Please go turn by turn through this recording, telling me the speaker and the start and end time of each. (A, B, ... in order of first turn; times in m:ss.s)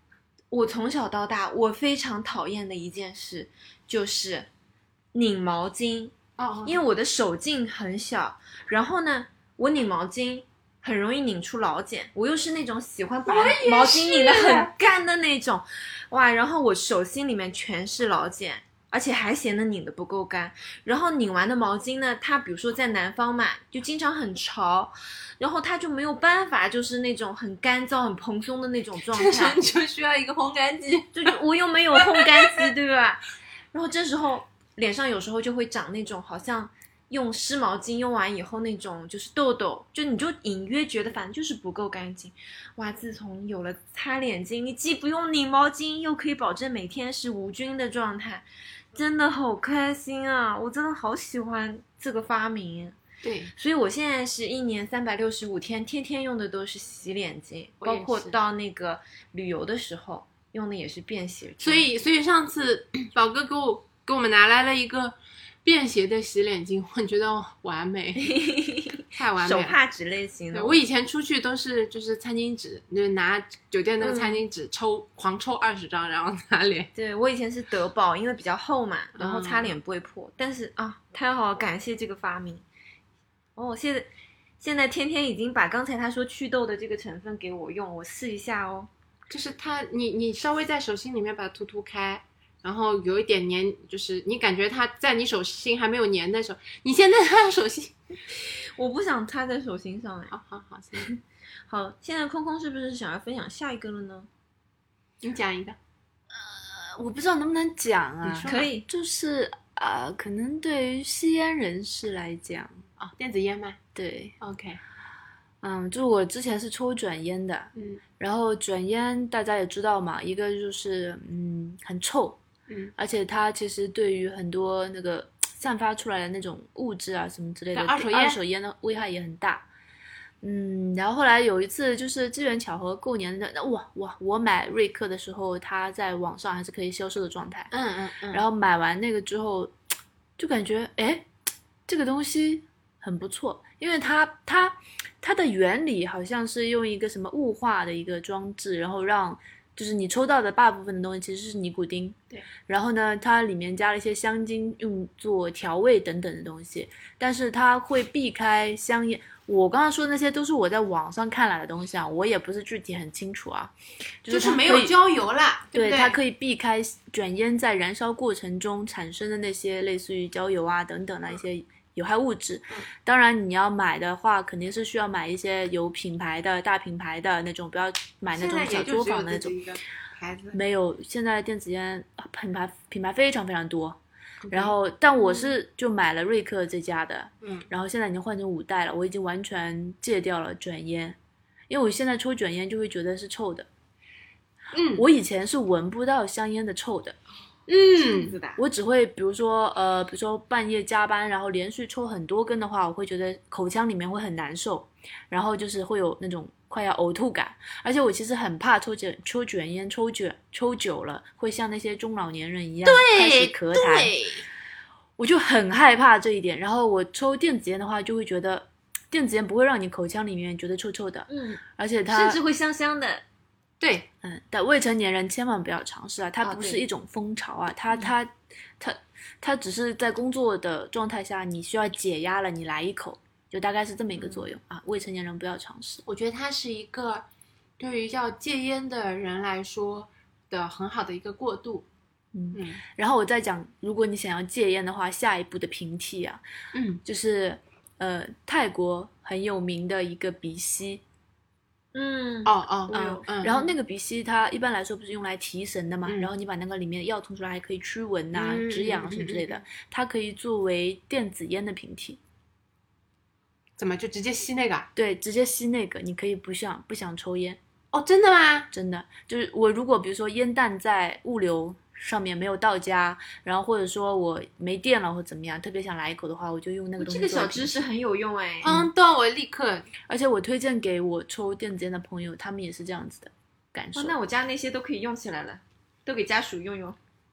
0:00.5-0:04.5 A
0:05.1-0:29.6 A
0:06.4-0:06.8 B
0:13.3-0:14.7 B
0:29.1-0:31.4 B
0:31.1-0:33.2 A
0:31.9-0:32.7 B
0:33.7-0:53.0 A
0:53.2-0:53.5 B
0:53.5-1:01.8 A
0:57.8-0:58.4 B
1:01.6-1:08.3 B
1:08.2-1:10.8 A
1:09.1-1:09.8 B
1:10.5-1:16.9 B
1:14.0-1:14.4 A
1:16.9-1:22.6 A
1:19.1-1:19.7 B
1:23.6-1:28.9 A
1:29.3-1:37.9 B
1:38.3-1:40.3 A
1:40.3-1:41.1 B
1:41.0-1:44.3 A
1:45.2-1:45.8 B
1:46.3-1:52.8 C
1:48.2-1:48.6 B
1:48.4-1:48.8 A
1:53.0-1:53.8 B
1:53.9-1:54.3 C
1:54.4-1:54.8 B
1:55.6-2:02.4 C
2:03.0-2:09.6 C
2:07.7-2:08.4 B
2:10.4-2:17.7 C
2:17.7-2:18.4 B
2:18.3-2:19.7 C
2:20.4-2:21.3 C
2:21.9-2:43.7 C
2:44.2-2:44.9 C
2:44.3-2:46.2 B
2:45.7-2:59.6 C
2:58.3-3:00.6 B
3:00.5-3:04.0 C
3:04.4-3:05.5 B
3:04.5-3:11.2 C
3:07.4-3:07.7 B
3:11.7-3:13.7 C
3:14.7-3:15.0 B
3:15.0-3:17.2 C
3:17.7-3:18.3 B
3:18.0-3:18.6 A
3:18.6-3:34.1 C
3:32.8-3:34.4 B
3:35.2-3:42.4 C
3:41.3-3:43.2 A
3:43.8-3:44.1 B
3:44.2-3:56.0 C
3:46.4-3:46.8 A
3:54.2-3:54.4 B
3:56.0-3:57.2 B
3:57.8-4:01.8 B
4:02.3-4:06.4 C
4:02.5-4:02.8 B
4:06.7-4:07.0 B
4:07.0-4:11.0 C
4:11.9-4:13.1 A
4:12.4-4:13.7 B
4:12.9-4:22.2 C
4:18.3-4:19.6 B
4:23.8-4:24.9 B
4:25.0-4:27.6 C
4:27.9-4:28.7 B
4:28.7-4:37.8 C
4:37.0-4:38.8 A
4:38.6-4:39.9 B
4:40.1-4:44.1 C
4:43.9-4:47.0 A